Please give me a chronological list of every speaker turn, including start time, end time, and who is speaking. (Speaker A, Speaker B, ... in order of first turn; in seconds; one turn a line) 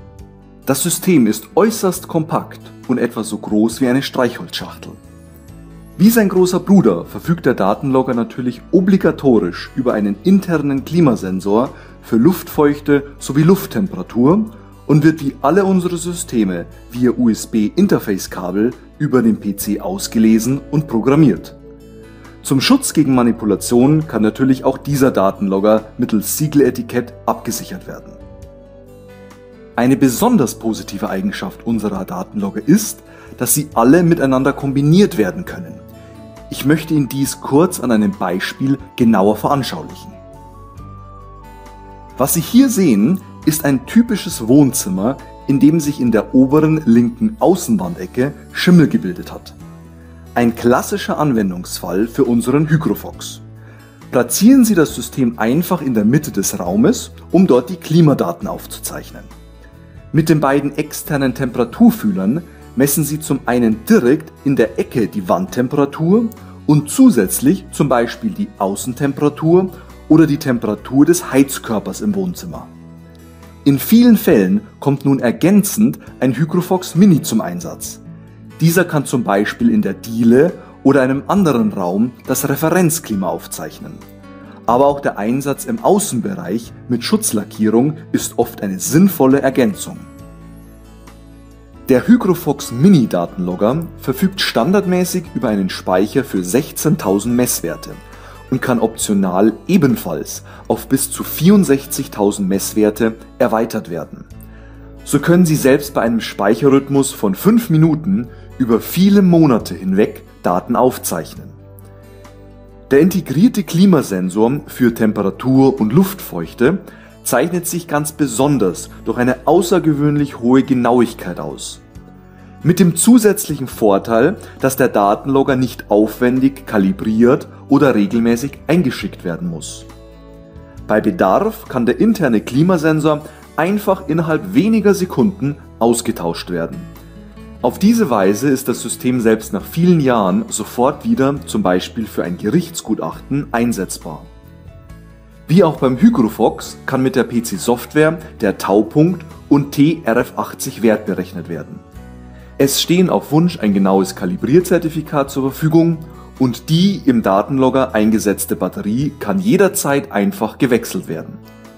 Speaker A: 0.7-5.0
Speaker A: 6.0-21.6
Speaker A: 22.4-28.2
Speaker A: 29.8-35.9
Speaker A: 36.5-40.2
Speaker A: 42.2-49.6
Speaker A: 50.4-53.4
Speaker A: 54.1-59.3
Speaker A: 60.1-72.7
Speaker A: 73.7-78.0
Speaker A: 78.6-84.0
Speaker A: 84.7-90.1
Speaker A: 91.9-104.3
Speaker A: 105.0-111.6
Speaker A: 112.9-121.8
Speaker A: 122.6-129.9
Speaker A: 130.9-136.9
Speaker A: 137.6-144.3
Speaker A: 145.5-151.8
Speaker A: 152.6-161.4